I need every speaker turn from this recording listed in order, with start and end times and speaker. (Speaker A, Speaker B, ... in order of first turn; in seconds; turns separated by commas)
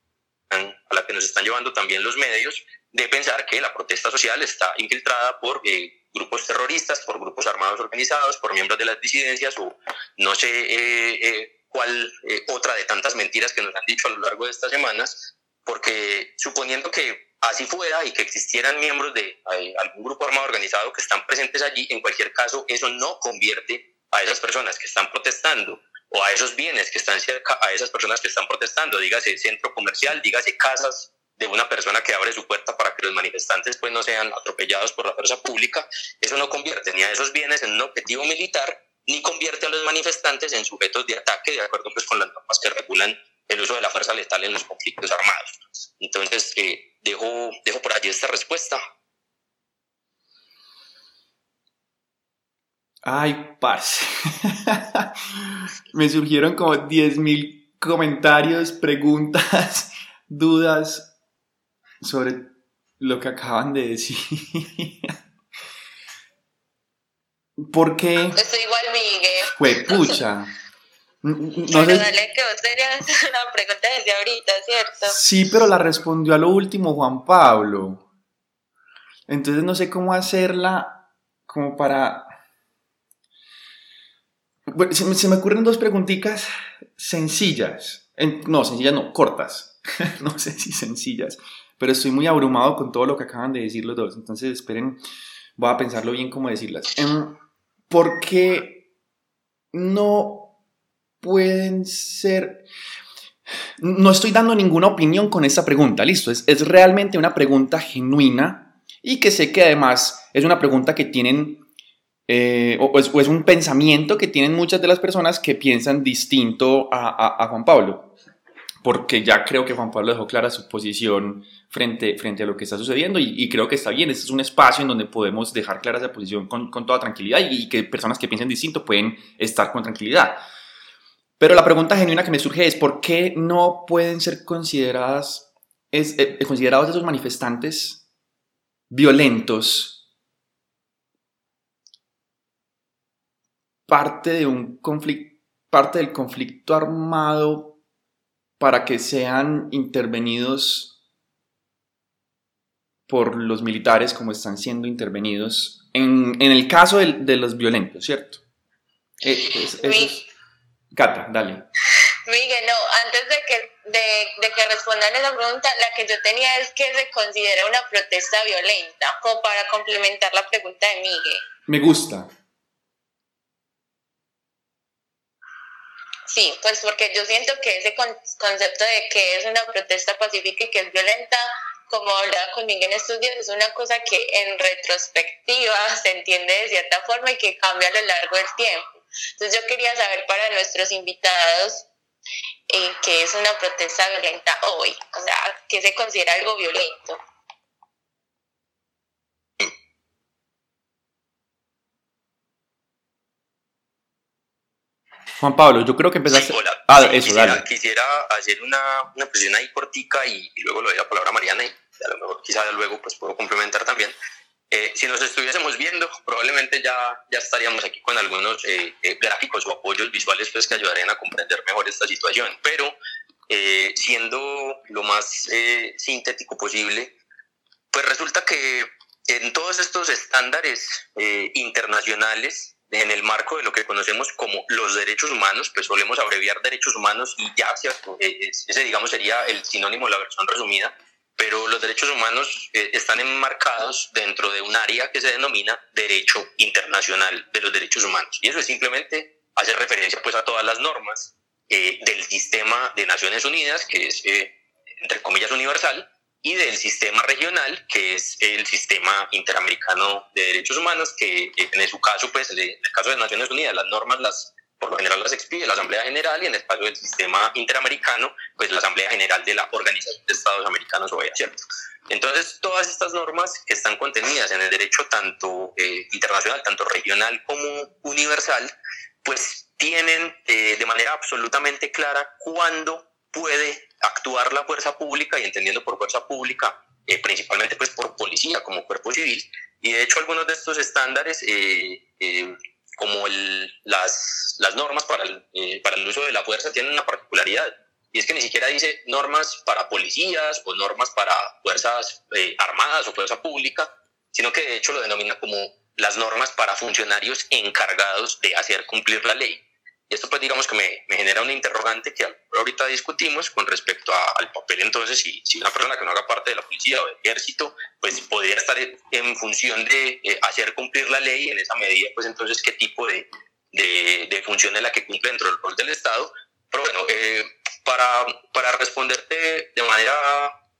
Speaker A: 0.5-48.8, Speaker B: 53.0-61.1, Speaker B: 62.0-65.2, Speaker B: 67.6-68.4, Speaker C: 68.3-70.2, Speaker B: 69.6-70.5, Speaker B: 71.2-72.1, Speaker C: 71.7-75.2, Speaker B: 75.1-78.0, Speaker B: 79.3-82.3, Speaker B: 84.7-95.0, Speaker B: 95.6-97.4, Speaker B: 97.9-98.8, Speaker B: 99.7-100.5, Speaker B: 101.2-102.6, Speaker B: 103.8-111.6, Speaker B: 112.3-118.1, Speaker B: 118.8-130.4, Speaker B: 131.4-138.0, Speaker B: 138.9-140.0, Speaker B: 143.9-147.8, Speaker B: 148.6-150.9, Speaker B: 153.1-158.4, Speaker B: 159.2-160.2, Speaker C: 159.7-160.2, Speaker B: 160.9-161.7, Speaker C: 162.3-171.4, Speaker B: 171.7-172.3, Speaker C: 176.3-191.9, Speaker C: 192.7-197.2, Speaker B: 205.4-207.6, Speaker A: 206.3-214.2, Speaker A: 214.7-223.0, Speaker A: 223.5-227.2, Speaker A: 227.9-271.6, Speaker A: 272.1-278.7, Speaker A: 279.2-330.5